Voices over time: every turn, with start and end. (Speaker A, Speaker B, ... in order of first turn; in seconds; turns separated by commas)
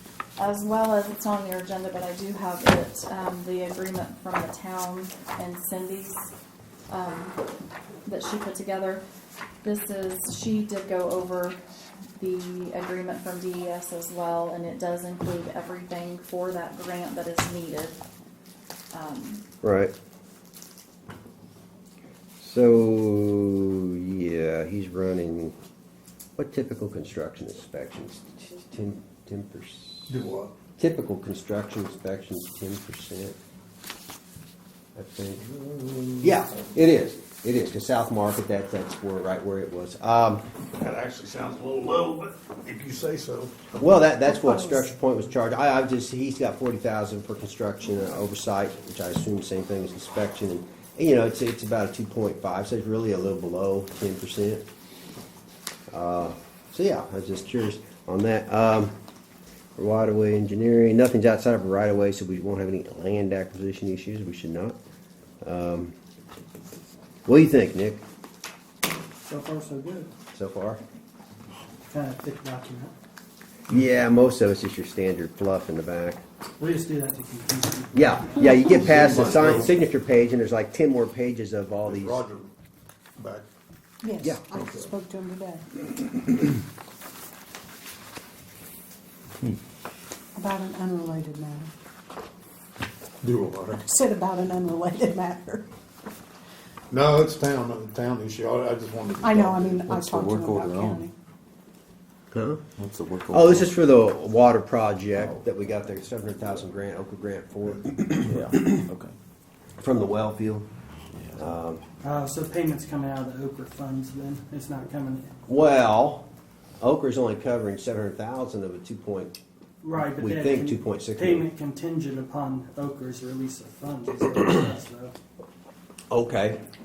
Speaker A: 0.4-6.3, Speaker A: 6.9-7.4, Speaker A: 8.1-9.0, Speaker A: 9.6-11.6, Speaker A: 12.2-18.0, Speaker A: 18.9-19.4, Speaker B: 19.6-19.9, Speaker B: 22.4-25.6, Speaker B: 26.4-30.1, Speaker C: 30.1-30.5, Speaker B: 30.8-33.4, Speaker B: 35.0-35.5, Speaker C: 35.5-36.3, Speaker B: 36.2-40.5, Speaker C: 40.8-43.8, Speaker B: 43.8-54.6, Speaker B: 55.9-58.9, Speaker B: 59.8-64.8, Speaker B: 65.4-65.9, Speaker B: 67.3-68.0, Speaker D: 69.3-70.1, Speaker B: 70.3-70.8, Speaker D: 71.9-72.9, Speaker B: 73.7-76.2, Speaker D: 76.6-78.8, Speaker B: 77.9-82.2, Speaker C: 78.6-79.7, Speaker C: 81.8-82.5, Speaker C: 83.2-83.5, Speaker E: 84.0-85.7, Speaker C: 84.5-84.9, Speaker E: 90.3-91.7, Speaker C: 93.2-93.8, Speaker E: 93.7-95.7, Speaker C: 96.9-99.9, Speaker E: 99.1-101.1, Speaker F: 99.9-101.0, Speaker B: 102.3-102.6, Speaker F: 102.8-103.8, Speaker B: 103.3-108.5, Speaker F: 108.2-109.2, Speaker B: 109.8-110.7, Speaker F: 111.1-111.4, Speaker B: 111.4-111.8, Speaker D: 112.0-115.3, Speaker B: 115.5-116.3, Speaker B: 116.8-119.4, Speaker D: 119.8-125.1, Speaker B: 120.2-121.5, Speaker B: 126.1-126.6